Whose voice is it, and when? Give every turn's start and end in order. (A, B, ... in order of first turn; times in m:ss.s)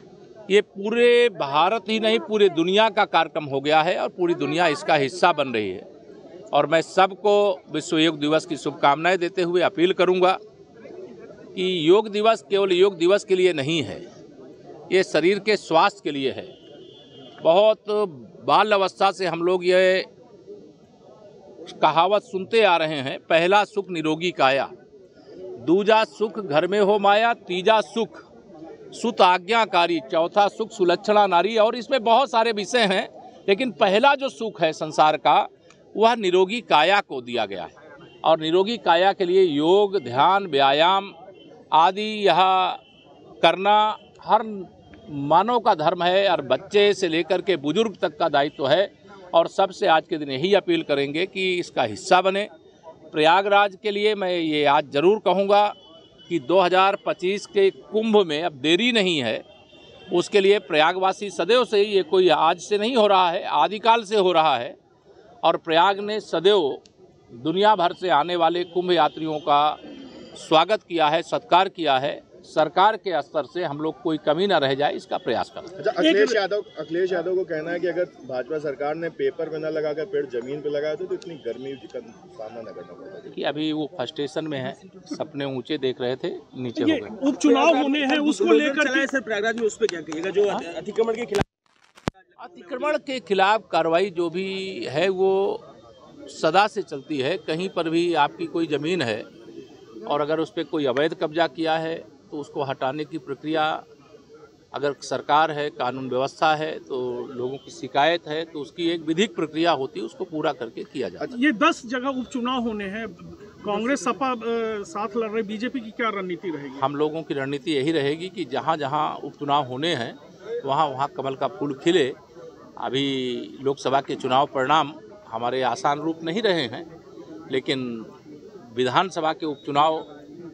0:00.5-0:05.9 A
0:06.5-0:10.4 A
0:11.6-0:14.0 A
0:14.9-0:16.5 A
0:17.4-0:20.1 A
0:21.6-0:24.7 A
0:25.6-0:28.3 A
0:28.9-0:37.7 A
0:38.2-0:41.1 A
0:41.7-0:42.8 A
0:43.4-0:52.5 A
0:53.1-0:55.8 A
0:56.3-0:59.4 A
1:00.1-1:04.8 A
1:05.4-1:09.8 A
1:10.4-1:15.7 A
1:15.8-1:23.4 B
1:16.0-1:16.4 C
1:23.3-1:27.2 A
1:26.8-1:29.1 C
1:27.3-1:31.4 D
1:32.4-1:35.6 A
1:36.3-1:39.3 A
1:40.1-1:43.8 A
1:44.7-1:51.3 A
1:51.3-1:56.9 C
1:56.8-2:02.2 A
2:02.8-2:06.9 A
2:07.5-2:08.1 A
2:08.7-2:10.1 A